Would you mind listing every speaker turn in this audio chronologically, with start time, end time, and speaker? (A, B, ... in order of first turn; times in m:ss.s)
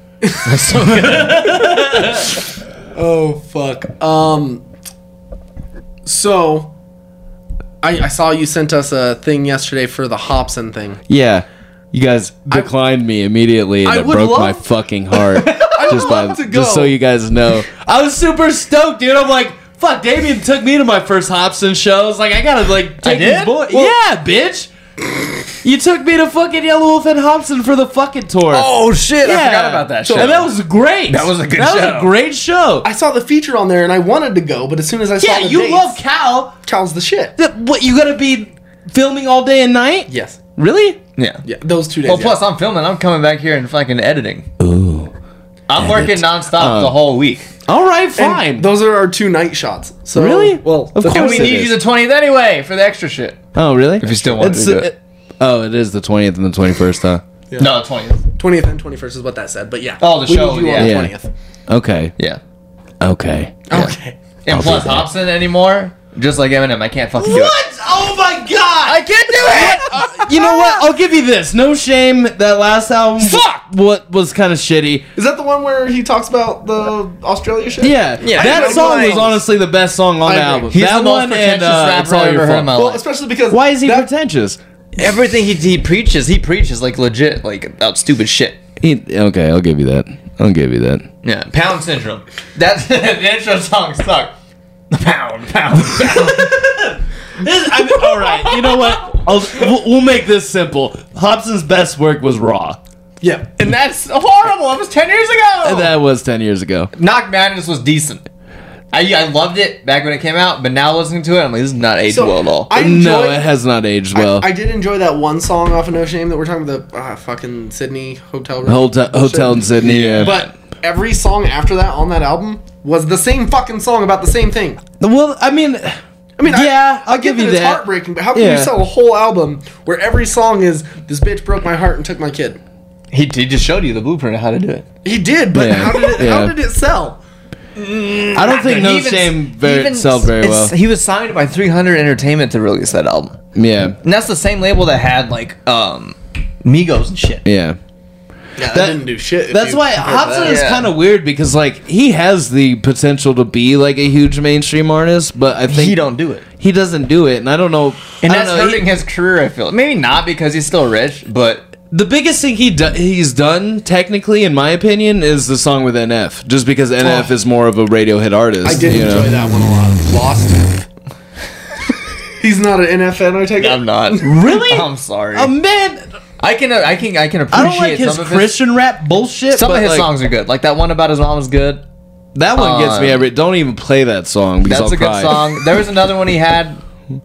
0:00.2-0:02.4 A
0:00.3-0:01.5 B
0:01.0-0:02.2 C
0:02.9-0:04.6 A
0:06.0-0:06.7 A
0:07.8-0:11.0 A
0:11.1-0:24.7 C
0:13.8-0:16.9 A
0:23.0-0:23.7 B
0:25.6-0:28.7 C
0:28.5-0:30.5 B
0:29.2-0:32.9 C
0:30.0-0:30.4 A
0:31.1-0:32.1 B
0:32.8-0:36.0 A
0:35.2-0:36.5 C
0:36.7-0:37.4 A
0:37.4-0:41.0 C
0:40.1-0:40.4 A
0:41.2-0:41.4 B
0:41.4-0:42.4 A
0:42.0-0:44.5 B
0:44.6-0:45.1 C
0:45.7-0:47.5 B
0:45.8-0:47.0 C
0:47.7-0:48.7 C
0:48.2-0:51.6 A
0:50.1-0:51.7 C
0:51.1-0:53.4 B
0:53.6-0:57.2 C
0:54.0-0:54.9 B
0:57.6-0:58.2 B
0:58.4-1:01.3 A
1:00.0-1:01.0 B
1:00.8-1:01.1 C
1:01.7-1:02.1 C
1:03.0-1:03.7 C
1:03.7-1:04.2 A
1:04.4-1:07.6 B
1:04.5-1:05.1 C
1:07.2-1:15.0 C
1:08.9-1:10.0 B
1:09.5-1:10.8 A
1:13.2-1:13.6 B
1:15.2-1:19.4 A
1:17.8-1:22.7 C
1:18.2-1:19.3 B
1:20.2-1:20.8 A
1:20.7-1:23.0 B
1:22.7-1:24.1 A
1:23.5-1:24.6 C
1:25.0-1:28.6 B
1:28.8-1:31.1 C
1:31.2-1:34.3 B
1:34.9-1:37.0 B
1:37.4-1:42.8 C
1:37.8-1:39.2 B
1:43.2-1:43.5 A
1:43.6-1:45.9 B
1:45.6-1:46.9 C
1:47.0-1:48.2 B
1:48.9-1:52.7 B
1:52.1-1:53.5 A
1:52.7-1:54.5 C
1:54.1-2:04.8 A
1:58.6-2:00.4 C
1:59.8-2:00.5 B
2:05.0-2:08.7 C
2:06.4-2:12.6 A
2:13.1-2:14.9 B
2:15.0-2:17.2 A
2:15.5-2:16.6 C
2:17.8-2:23.4 B
2:18.3-2:20.7 C
2:23.6-2:24.0 C
2:24.0-2:27.4 B
2:27.4-2:27.8 C
2:28.6-2:30.6 A
2:28.7-2:36.0 C
2:30.4-2:30.9 B
2:35.7-2:36.4 B
2:36.6-2:38.9 C
2:38.2-2:41.6 B
2:41.9-2:49.3 C
2:47.0-2:47.3 A
2:48.6-2:50.9 A
2:52.4-2:54.4 A
2:53.6-2:55.5 B
2:54.2-2:56.0 C
2:56.4-2:58.6 B
2:57.5-3:00.1 C
2:59.5-3:01.8 B
3:02.4-3:05.6 C
3:02.6-3:03.2 B
3:04.6-3:06.8 B